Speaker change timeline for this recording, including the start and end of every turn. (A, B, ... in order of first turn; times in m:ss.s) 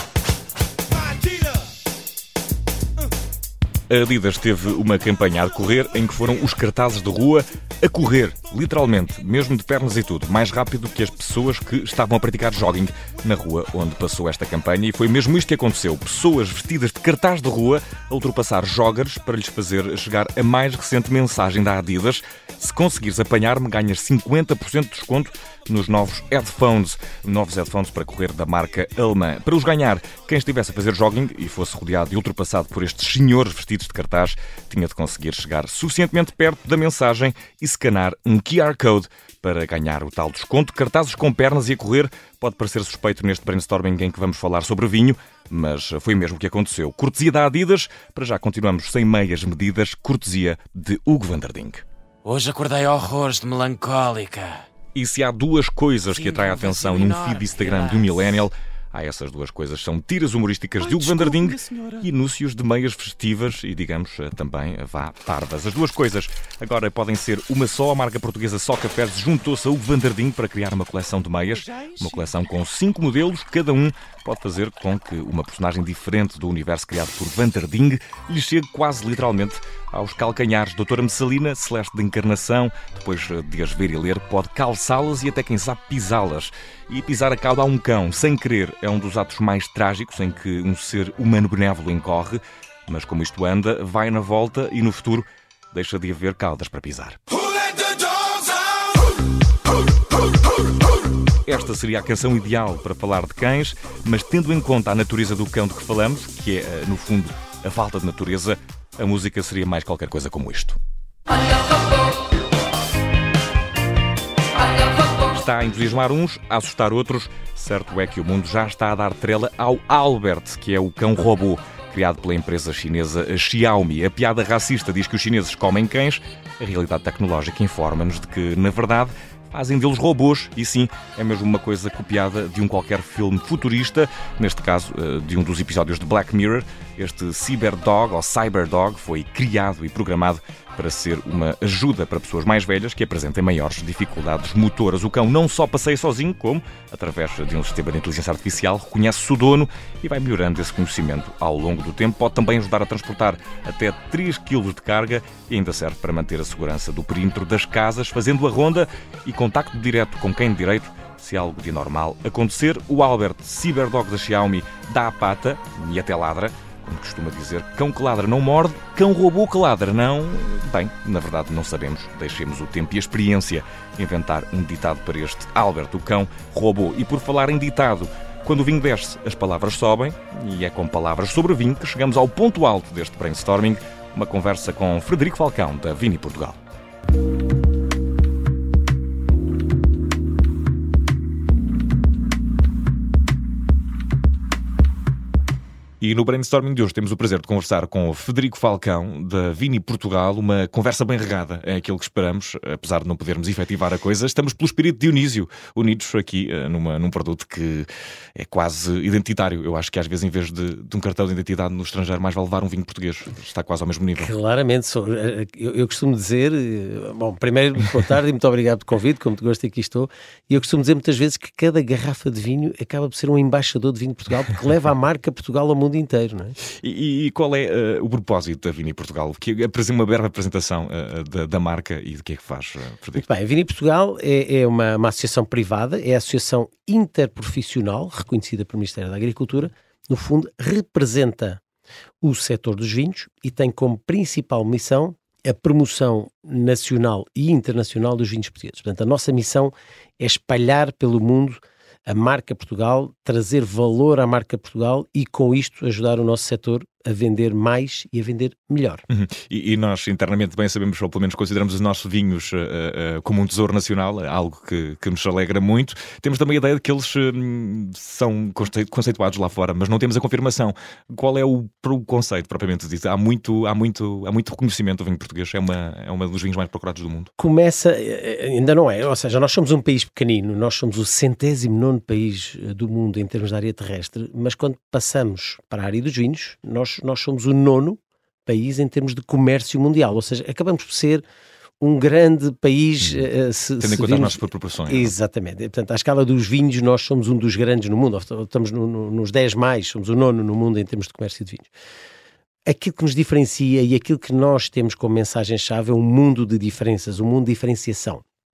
0:03.9-0:51.8 A
0:52.2-0:54.6 B
0:54.9-1:37.2 A
0:56.1-0:58.4 B
1:41.4-1:50.8 A
1:55.2-3:06.6 A
3:16.0-3:34.3 A
3:34.2-3:46.6 C
3:46.7-3:53.2 A
3:53.1-4:01.6 C
4:02.2-4:19.0 C
4:19.1-4:37.3 A
4:37.4-4:51.2 C
4:51.8-5:01.7 C
4:53.0-4:53.3 A
4:53.8-4:55.1 A
5:02.6-5:08.2 C